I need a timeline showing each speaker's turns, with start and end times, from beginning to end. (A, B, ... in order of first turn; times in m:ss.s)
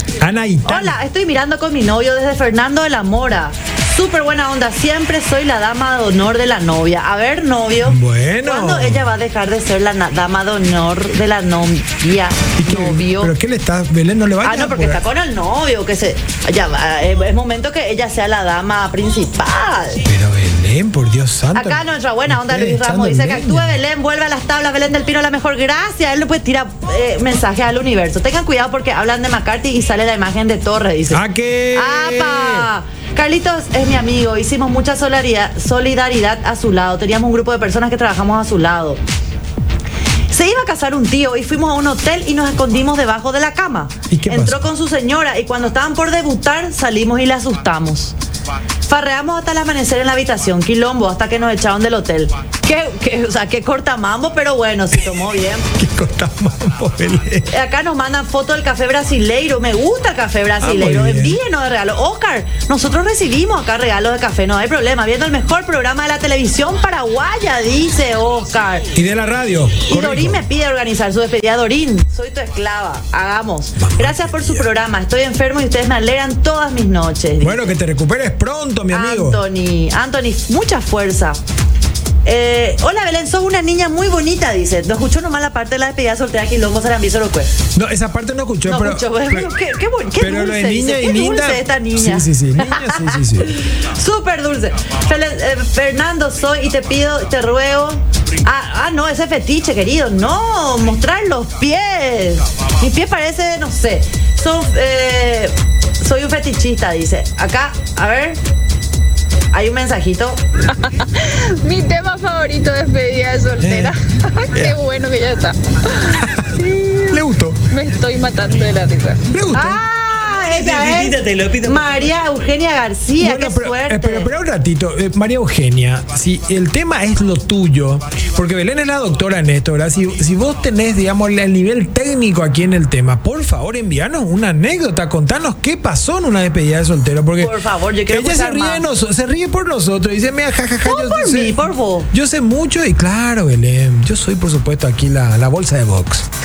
0:00.2-0:01.0 A
0:00.6-0:13.3 B
0:07.8-0:09.0 A
0:12.6-0:15.0 A
0:14.4-0:20.0 B
0:20.0-0:23.8 A
0:21.5-0:31.2 B
0:31.1-0:32.7 A
0:31.7-0:39.0 B
0:40.3-0:48.1 B
0:44.1-0:44.7 A
0:48.9-0:55.6 B
0:55.7-0:57.5 A
0:57.5-1:08.9 B
1:00.6-1:01.4 A
1:08.9-1:10.4 A
1:09.8-1:17.7 B
1:13.8-1:14.7 A
1:17.4-1:19.4 A
1:18.9-1:21.4 B
1:22.2-1:27.5 B
1:27.7-1:29.5 A
1:28.6-1:48.4 B
1:30.2-1:33.5 A
1:49.5-1:50.4 B
1:51.2-1:55.5 C
1:53.6-1:54.0 A
1:54.5-1:54.8 A
1:56.2-1:57.6 A
1:56.7-1:57.1 C
1:57.7-1:59.2 C
1:59.3-1:59.8 A
1:59.5-2:04.3 B
2:00.5-2:01.9 A
2:03.2-2:17.6 A
2:17.4-2:18.8 B
2:18.1-2:26.3 A
2:20.8-2:22.1 B